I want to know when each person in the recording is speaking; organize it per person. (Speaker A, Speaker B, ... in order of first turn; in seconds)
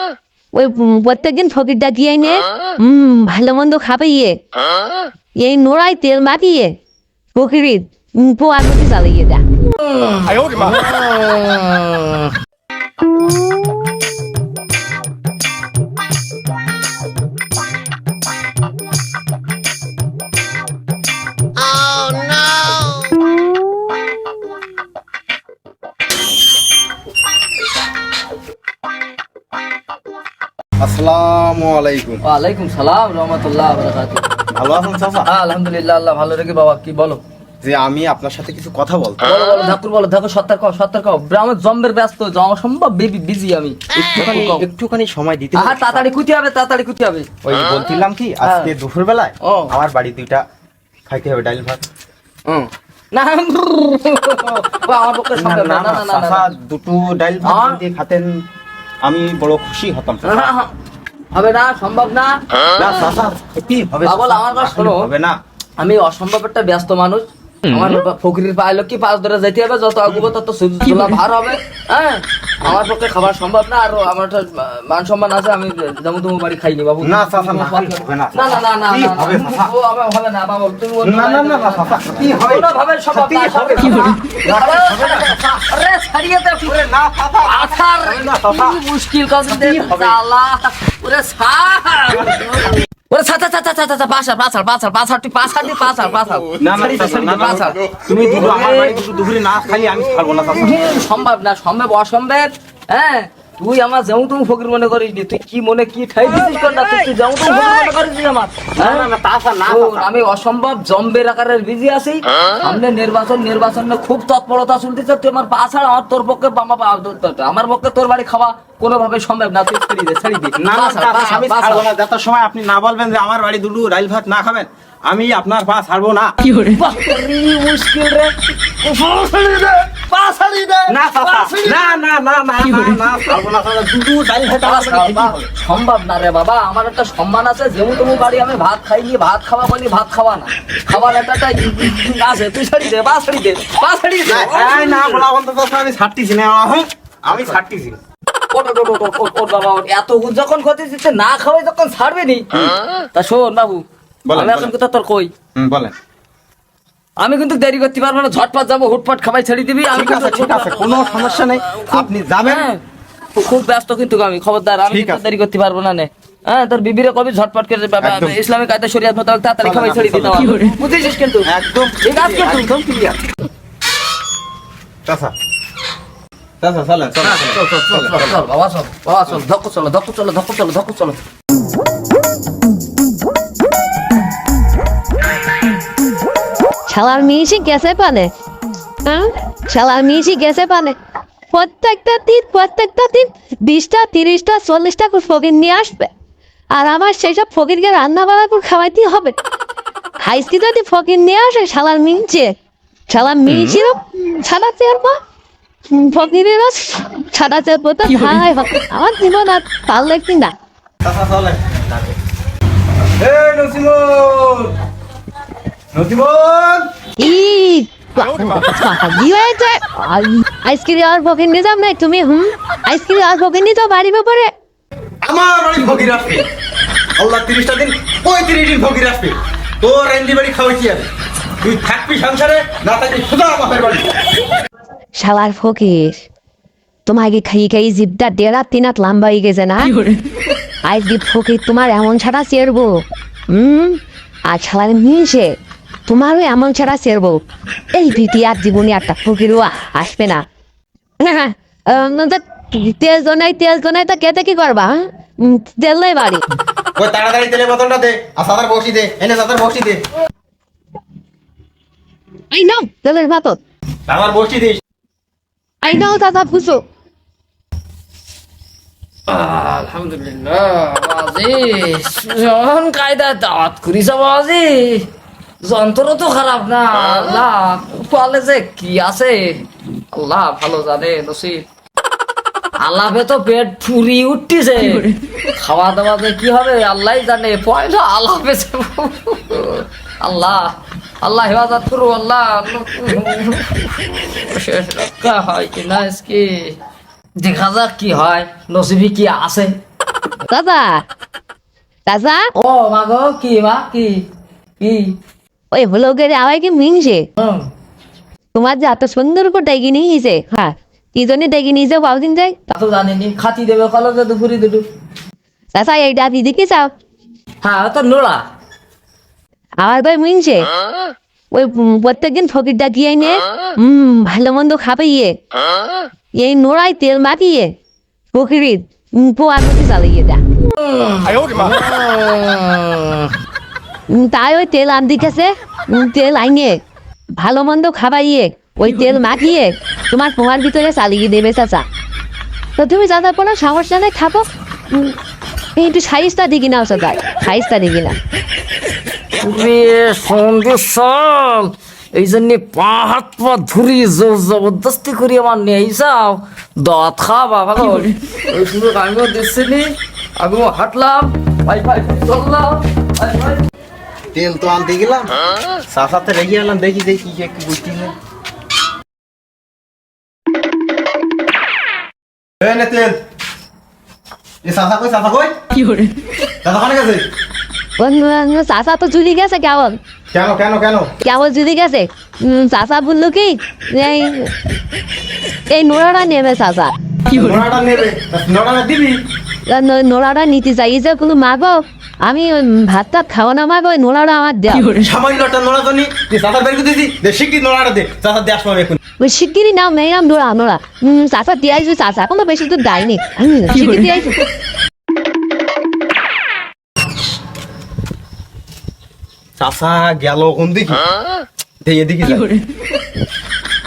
Speaker A: 0.5-4.3, 5.4-6.7, 7.3-9.4, 21.7-23.2, 186.9-188.3, 189.0-190.9, 191.5-196.1, 196.7-199.3, 200.2-202.5, 203.1-205.2, 205.9-210.5, 217.2-224.5, 235.2-236.2, 237.1-240.1, 240.8-242.9, 243.5-245.5, 246.1-247.4, 247.9-250.4, 251.2-256.4, 262.5-263.6, 265.8-266.8, 300.5-301.0, 302.1-302.4, 305.7-307.2, 308.5-312.6, 315.7-316.9, 319.8-320.7, 321.5-325.4, 326.3-327.7, 328.3-330.4, 334.1-336.8, 337.4-341.8, 342.8-345.2, 345.8-348.1, 378.0-380.0, 381.2-384.5, 385.7-386.9, 389.7-395.0, 399.2-404.4
Speaker B: 9.7-12.3, 32.2-34.2, 35.2-37.2, 39.2-44.6, 45.5-47.3, 48.4-48.7, 49.4-49.7, 53.1-56.5, 57.4-57.8, 60.2-60.7, 61.3-62.4, 64.0-65.1, 65.8-86.8, 87.4-99.0, 100.5-109.1, 109.7-121.9, 126.4-131.8, 134.6-145.2, 148.5-155.3, 157.2-162.8, 163.3-171.5, 172.0-173.2, 177.2-181.2, 269.3-275.1, 275.6-281.6, 282.8-296.8, 297.4-299.8, 302.6-304.2, 304.8-305.1, 307.4-307.7, 312.7-314.8, 317.6-318.4, 330.7-333.3, 349.3-363.6
Speaker C: 30.8-32.2, 34.5-35.3, 37.6-39.2, 43.9-46.1, 47.4-50.4, 51.1-51.8, 55.4-58.3, 59.0-60.5, 62.7-65.3, 77.0-79.7, 81.0-85.4, 86.6-88.8, 89.6-90.2, 92.1-92.7, 96.6-100.8, 108.8-110.1, 120.6-126.3, 130.9-135.4, 144.2-148.0, 154.2-154.7, 155.5-155.9, 159.9-162.7, 164.8-165.2, 168.0-168.4, 169.6-170.5, 171.4-173.0, 175.0-175.3, 176.6-178.4, 211.0-212.1, 213.2-214.7, 215.9-216.9, 225.2-226.4, 227.2-231.1, 231.6-234.1, 256.9-260.0, 264.1-264.8, 364.3-365.4, 365.9-368.1, 372.6-373.2, 374.6-375.5, 376.6-377.2, 380.3-381.1, 387.2-389.2, 394.9-399.0, 409.6-411.0, 411.8-412.5